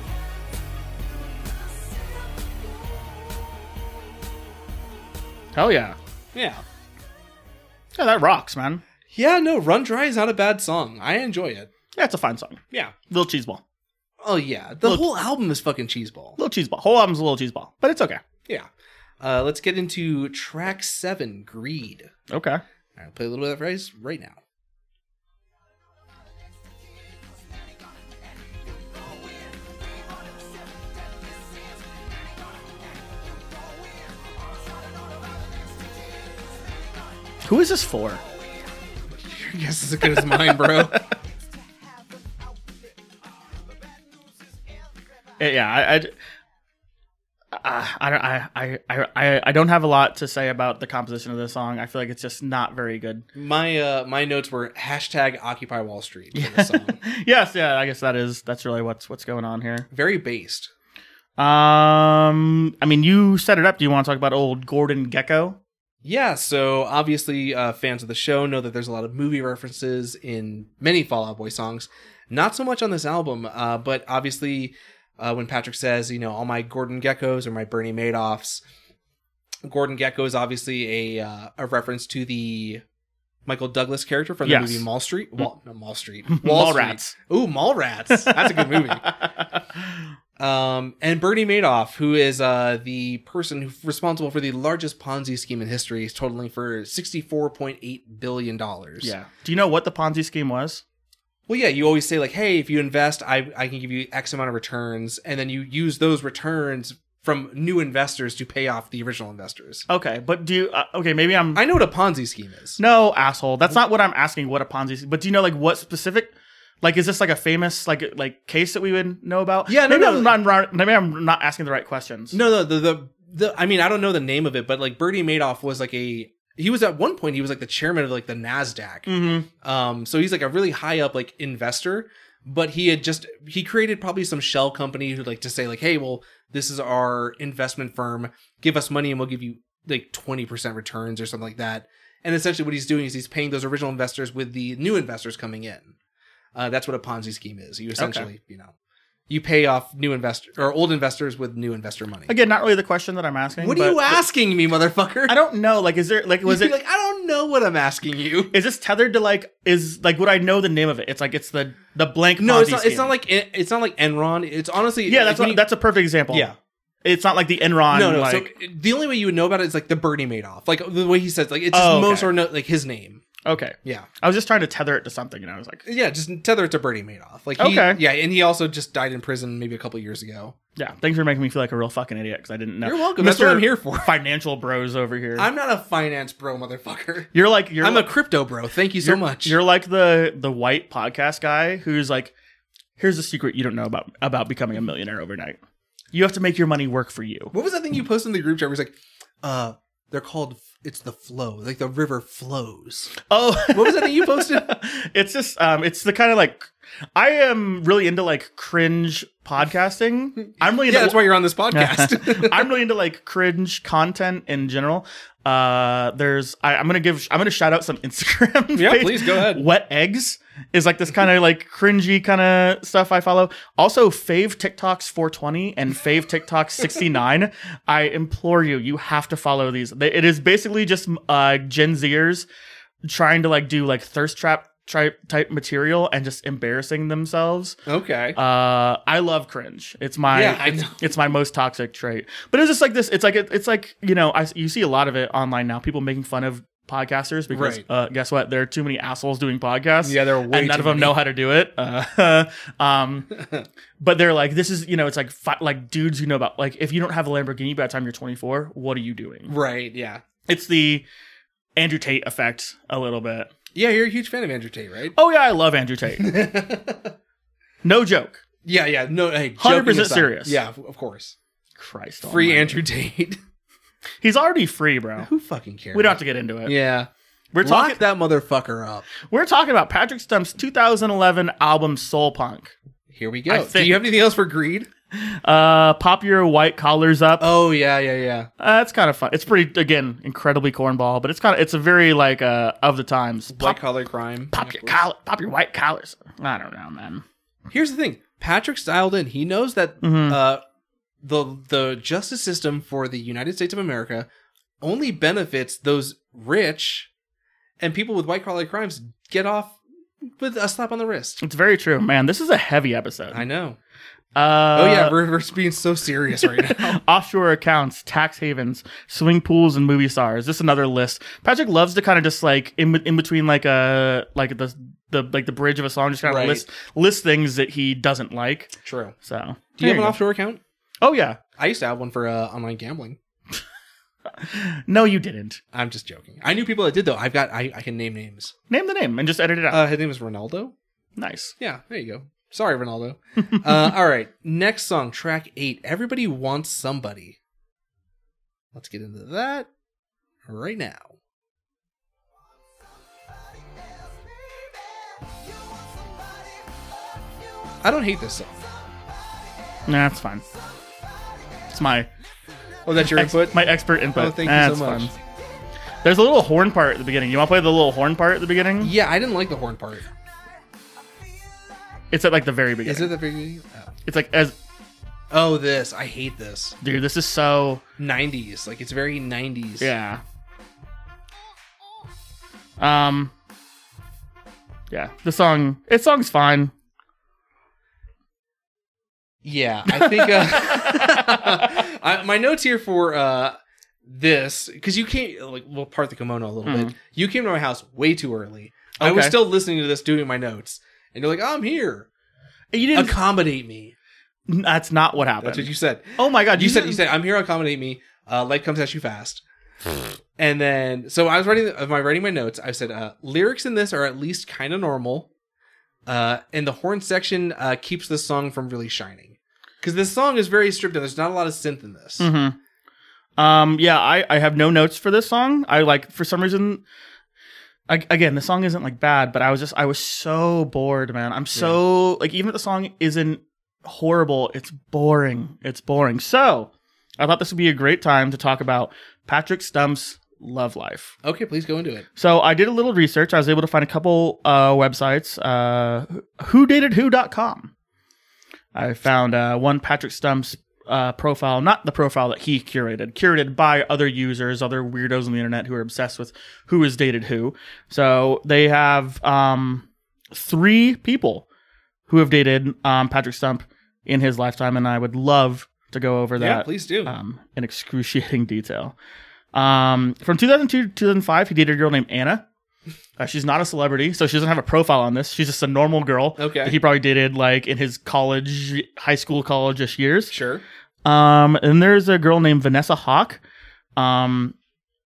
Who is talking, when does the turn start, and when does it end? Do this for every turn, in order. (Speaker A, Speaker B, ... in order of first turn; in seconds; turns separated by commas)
Speaker A: 5.5-6.0, Speaker B: 6.3-6.6, Speaker A: 8.0-8.8, Speaker B: 9.1-11.7, Speaker A: 12.0-13.6, Speaker B: 14.2-16.4, Speaker A: 16.4-18.2, Speaker B: 19.2-22.1, Speaker A: 22.3-22.6, Speaker B: 23.0-24.4, Speaker A: 37.5-38.2, Speaker B: 39.1-41.0, Speaker A: 40.1-40.9, Speaker A: 45.4-46.1, Speaker A: 47.5-53.3, Speaker B: 53.4-57.0, Speaker A: 56.3-59.9, Speaker B: 59.9-60.7, Speaker A: 61.4-65.6, Speaker B: 66.0-78.6, Speaker B: 79.6-82.8, Speaker B: 83.5-89.2, Speaker A: 84.5-84.8, Speaker A: 86.3-87.2, Speaker A: 88.1-90.0, Speaker B: 90.4-99.1, Speaker A: 99.0-100.8, Speaker B: 101.5-109.8, Speaker A: 109.9-111.6, Speaker B: 111.5-112.8, Speaker A: 112.8-122.4, Speaker B: 119.7-120.4, Speaker B: 122.3-129.1, Speaker A: 129.1-129.5, Speaker B: 129.6-145.9, Speaker B: 146.6-148.7, Speaker A: 148.0-148.3, Speaker B: 149.3-152.3, Speaker A: 152.3-154.2, Speaker B: 153.6-155.4, Speaker A: 155.3-156.7, Speaker B: 156.4-158.6, Speaker A: 158.5-163.1, Speaker B: 162.4-165.6, Speaker A: 165.1-166.5, Speaker B: 166.3-166.6, Speaker A: 167.1-168.5, Speaker B: 167.9-173.2, Speaker A: 171.7-172.3, Speaker A: 173.4-175.8, Speaker B: 175.9-180.6, Speaker A: 177.6-178.0, Speaker A: 180.8-185.5, Speaker B: 182.8-184.1, Speaker B: 185.4-189.6, Speaker A: 187.3-188.1, Speaker A: 189.0-192.3, Speaker A: 193.0-195.6, Speaker A: 196.1-197.5, Speaker B: 197.5-203.1, Speaker A: 203.2-232.5, Speaker B: 203.7-204.7, Speaker B: 210.9-212.7, Speaker B: 218.8-219.7, Speaker A: 233.1-237.8, Speaker B: 237.9-238.4, Speaker A: 238.3-253.3, Speaker B: 240.3-241.0, Speaker B: 247.5-247.8, Speaker B: 250.0-251.2, Speaker B: 253.3-253.7, Speaker A: 254.0-259.5, Speaker B: 259.5-260.2, Speaker A: 260.5-261.1, Speaker A: 261.8-263.5, Speaker B: 263.7-265.1, Speaker A: 265.1-266.3, Speaker B: 266.2-267.1, Speaker A: 267.8-268.4, Speaker B: 268.6-271.4, Speaker A: 269.6-270.6, Speaker A: 271.8-272.8, Speaker B: 272.2-273.4, Speaker A: 274.2-275.3, Speaker B: 275.2-277.1, Speaker A: 275.9-276.8, Speaker A: 277.5-278.0, Speaker B: 277.6-279.1, Speaker A: 279.2-282.7, Speaker B: 283.1-284.9, Speaker A: 283.5-284.0, Speaker A: 285.1-287.5, Speaker B: 287.4-288.5, Speaker A: 288.6-293.8, Speaker B: 293.5-295.0, Speaker A: 294.5-297.2, Speaker B: 297.7-300.6, Speaker A: 300.0-300.4, Speaker B: 301.2-304.3, Speaker B: 304.8-307.1, Speaker B: 307.8-311.4, Speaker A: 311.4-313.4, Speaker B: 313.3-313.8, Speaker A: 314.4-315.2, Speaker B: 314.8-317.0, Speaker A: 316.4-330.2, Speaker B: 326.2-326.6, Speaker B: 328.8-329.1, Speaker B: 329.8-330.6, Speaker A: 331.0-331.4, Speaker B: 331.6-333.2, Speaker A: 334.3-335.6, Speaker B: 335.7-338.5, Speaker A: 338.7-339.9, Speaker B: 339.7-340.7, Speaker A: 341.2-341.5, Speaker B: 341.6-347.4, Speaker A: 343.5-343.9, Speaker B: 348.7-349.7, Speaker B: 350.5-351.1, Speaker B: 357.8-358.6, Speaker A: 359.9-360.4, Speaker A: 361.7-362.1, Speaker B: 362.9-365.1, Speaker A: 363.0-365.1, Speaker A: 366.0-368.9, Speaker B: 368.8-370.1, Speaker A: 372.1-373.1, Speaker B: 372.9-373.9, Speaker A: 374.1-374.6, Speaker B: 375.3-376.8, Speaker A: 376.8-377.8, Speaker B: 378.0-379.9, Speaker A: 379.8-380.2, Speaker A: 382.8-383.3, Speaker A: 384.9-386.7, Speaker B: 389.4-402.1, Speaker A: 389.9-391.8, Speaker A: 396.7-396.9, Speaker A: 399.0-399.4, Speaker A: 402.7-403.2, Speaker B: 402.9-403.9, Speaker A: 404.5-407.0, Speaker B: 405.4-415.3, Speaker B: 416.1-422.3, Speaker A: 422.2-422.6, Speaker A: 423.4-426.8, Speaker A: 427.9-441.2, Speaker B: 441.2-442.1, Speaker A: 442.2-447.7, Speaker A: 448.7-461.4, Speaker A: 462.1-469.0, Speaker B: 466.4-467.1, Speaker A: 469.5-472.5, Speaker A: 473.2-480.3, Speaker B: 476.4-476.8, Speaker B: 480.3-480.6, Speaker A: 481.1-483.4, Speaker A: 484.0-484.6